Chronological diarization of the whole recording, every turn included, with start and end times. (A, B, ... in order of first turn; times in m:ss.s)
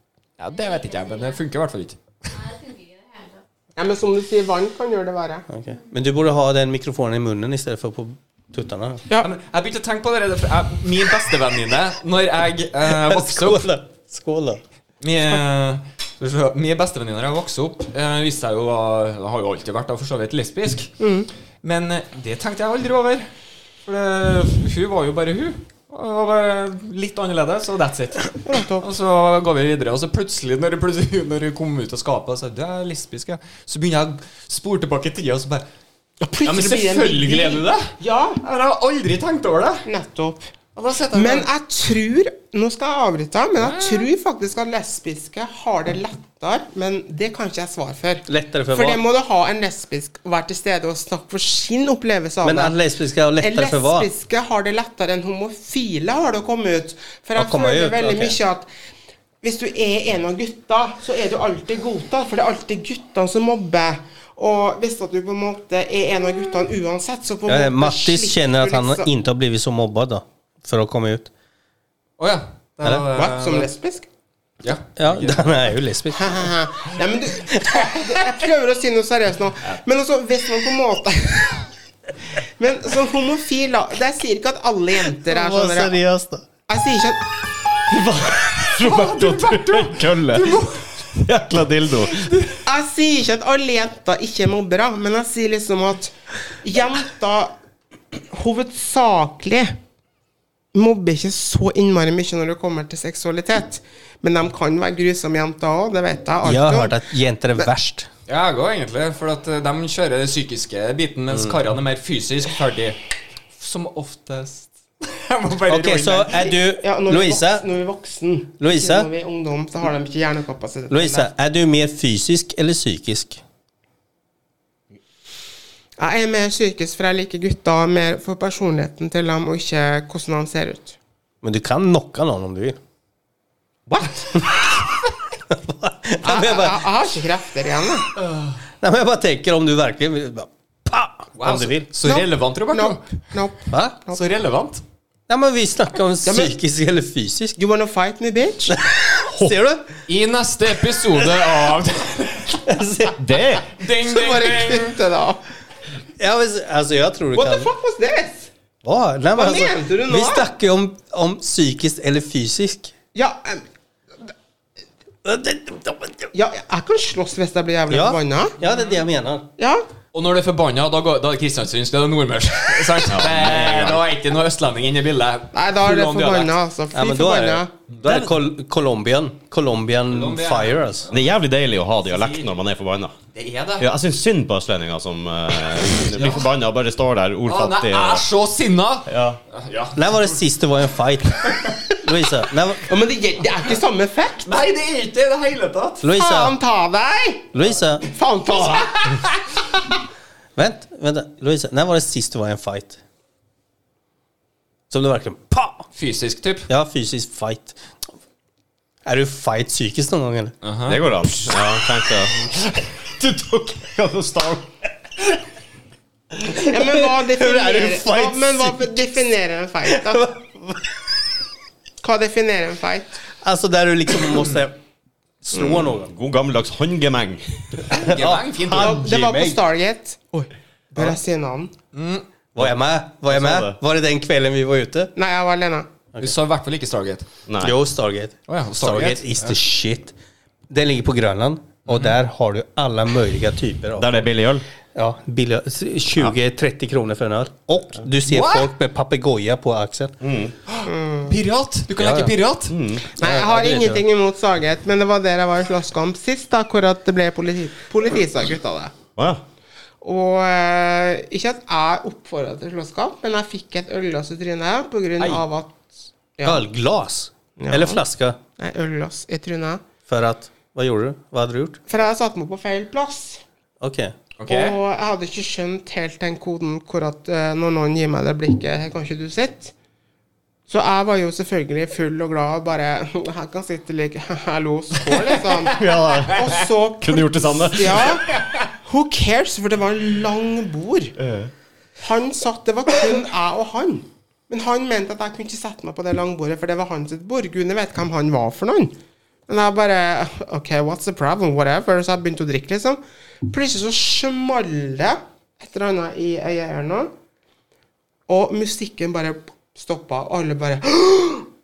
0:00.4-0:02.0 A
0:00.5-0:01.4 B
0:02.3-0:03.4 B
0:03.8-0:05.4 C
0:05.5-0:09.0 D
0:09.2-0:13.7 A
0:12.9-0:14.6 D
0:15.0-0:20.9 A
0:21.0-0:21.3 C
0:21.6-0:23.3 A
0:23.8-0:35.6 A
0:28.4-0:28.9 C
0:36.2-0:38.4 C
0:36.4-0:39.8 A
0:39.8-0:40.5 C
0:40.8-0:41.5 A
0:41.1-0:52.8 C
0:43.6-0:44.1 A
0:48.3-0:49.0 D
0:52.4-0:54.1 D
0:53.4-0:58.7 C
0:57.4-0:58.4 D
0:59.4-1:09.1 C
1:07.5-1:11.3 D
1:12.2-1:13.7 A
1:13.1-1:14.1 C
1:14.6-1:15.6 A
1:15.0-1:16.4 D
1:16.1-1:21.7 C
1:17.5-1:18.0 D
1:22.4-1:26.0 C
1:25.2-1:26.4 D
1:26.7-1:27.2 C
1:27.9-1:30.6 E
1:28.8-1:31.0 A
1:31.1-1:32.4 E
1:32.6-1:37.5 C
1:38.3-1:39.8 C
1:40.7-1:47.0 C
1:46.4-1:48.1 D
1:48.3-1:53.0 A
1:53.6-1:56.5 A
1:55.7-1:57.6 D
1:56.7-2:01.3 C
1:58.6-1:59.1 D
2:00.9-2:03.4 D
2:06.0-2:11.0 C
2:11.4-2:12.8 D
2:13.9-2:14.3 C
2:15.5-2:16.8 D
2:16.2-2:18.1 C
2:18.2-2:18.5 A
2:18.8-2:21.9 D
2:21.4-2:23.0 A
2:22.0-2:24.2 C
2:23.7-2:24.0 D
2:24.1-2:24.8 A
2:25.3-2:27.6 D
2:26.2-2:26.6 C
2:27.6-2:28.8 C
2:28.7-2:29.9 D
2:30.1-2:32.6 A
2:32.6-2:33.4 D
2:33.2-2:33.7 E
2:33.7-2:35.0 A
2:34.0-2:35.4 C
2:36.2-2:37.7 D
2:37.3-2:38.5 C
2:38.8-2:42.9 D
2:39.3-2:40.5 C
2:43.1-2:43.6 C
2:45.2-2:46.3 D
2:46.3-2:48.5 C
2:47.9-2:49.5 D
2:49.6-2:49.8 C
2:50.1-2:56.5 A
2:53.1-2:54.0 E
2:55.5-2:57.7 C
2:56.9-3:01.1 D
2:57.9-2:58.2 A
3:00.1-3:01.3 A
3:01.1-3:03.1 E
3:02.0-3:02.5 A
3:03.3-3:03.9 A
3:03.8-3:08.2 E
3:06.1-3:06.4 A
3:07.5-3:10.4 A
3:09.1-3:09.4 E
3:09.9-3:12.8 D
3:12.9-3:14.5 C
3:14.4-3:16.0 A
3:16.0-3:16.6 D
3:16.1-3:19.3 C
3:17.5-3:18.0 D
3:20.6-3:23.0 D
3:24.9-3:25.9 D
3:26.0-3:26.7 A
3:26.7-3:27.8 D
3:29.0-3:30.5 D
3:30.6-3:31.6 A
3:30.9-3:34.7 E
3:36.4-3:39.2 D
3:36.4-3:40.3 C
3:39.8-3:41.0 D
3:42.0-3:43.2 C
3:43.4-3:44.8 D
3:45.4-3:46.1 D
3:45.5-3:48.0 E
3:47.9-3:49.6 D
3:48.0-3:49.0 A
3:48.8-3:51.7 C
3:51.9-3:52.2 A
3:52.5-3:55.1 D
3:53.3-3:53.8 E
3:55.2-3:55.9 C
3:56.2-3:57.3 A
3:57.5-3:57.7 E
3:57.6-4:00.1 D
3:58.5-3:59.6 A
4:00.7-4:04.2 D
4:01.9-4:02.1 A
4:04.0-4:04.6 E
4:04.9-4:10.1 D
4:08.2-4:08.7 A
4:10.2-4:10.5 E
4:10.7-4:12.8 A
4:10.8-4:11.4 C
4:12.0-4:12.3 D
4:12.7-4:13.1 E
4:13.2-4:18.9 C
4:13.2-4:14.0 D
4:20.0-4:26.6 C
4:26.4-4:28.4 D
4:27.6-4:28.0 C
4:28.6-4:29.8 C
4:30.1-4:31.8 D
4:31.9-4:33.4 C
4:33.8-4:34.1 D
4:34.4-4:34.8 A
4:34.5-4:39.7 C
4:40.7-4:51.2 C
4:45.1-4:46.3 A
4:45.7-4:48.2 E
4:48.3-4:48.6 A
4:51.2-4:51.5 E
4:52.0-4:59.0 C
4:59.5-5:07.1 C
5:08.3-5:11.5 C